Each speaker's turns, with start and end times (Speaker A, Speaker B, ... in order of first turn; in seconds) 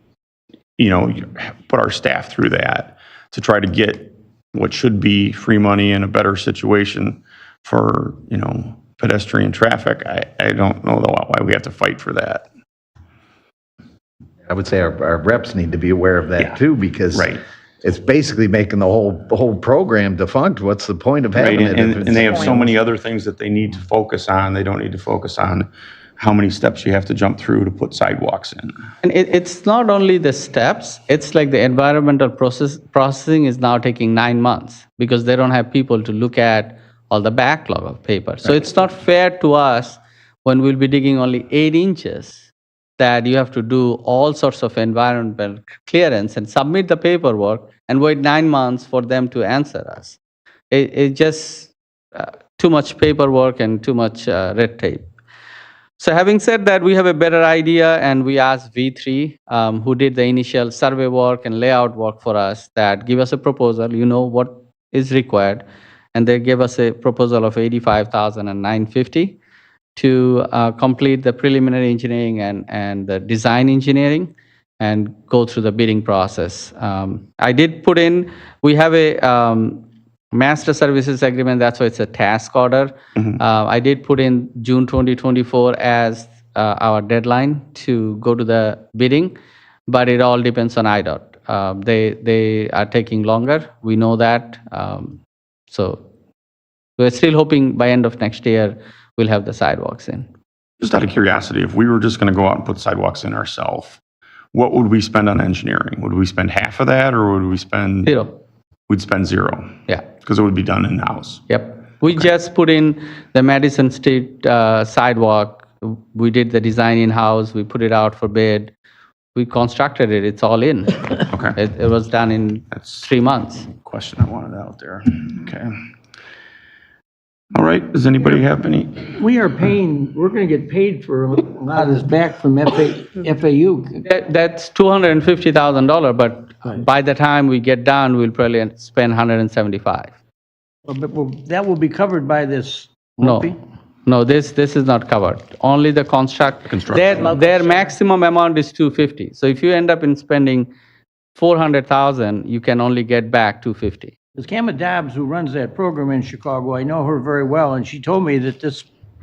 Speaker A: 0.8-12.4, 17.1-17.4, 21.3-25.7, 26.2-28.7, 100.8-104.0, 104.5-108.1, 108.9-111.4, 121.3-121.6, 122.8-123.0, 123.7-125.7, 127.5-129.1, 146.7-147.4
Speaker B: 14.4-22.7
Speaker C: 29.0-50.2, 50.7-55.1, 56.0-69.4, 70.0-89.3, 89.9-96.0, 97.0-100.3, 108.0-108.3, 111.5-118.7, 119.3-123.7, 134.0-140.1, 143.2-143.5, 144.1-150.7, 151.3-154.1
Speaker D: 129.2-134.0, 140.8-143.5, 154.3-158.9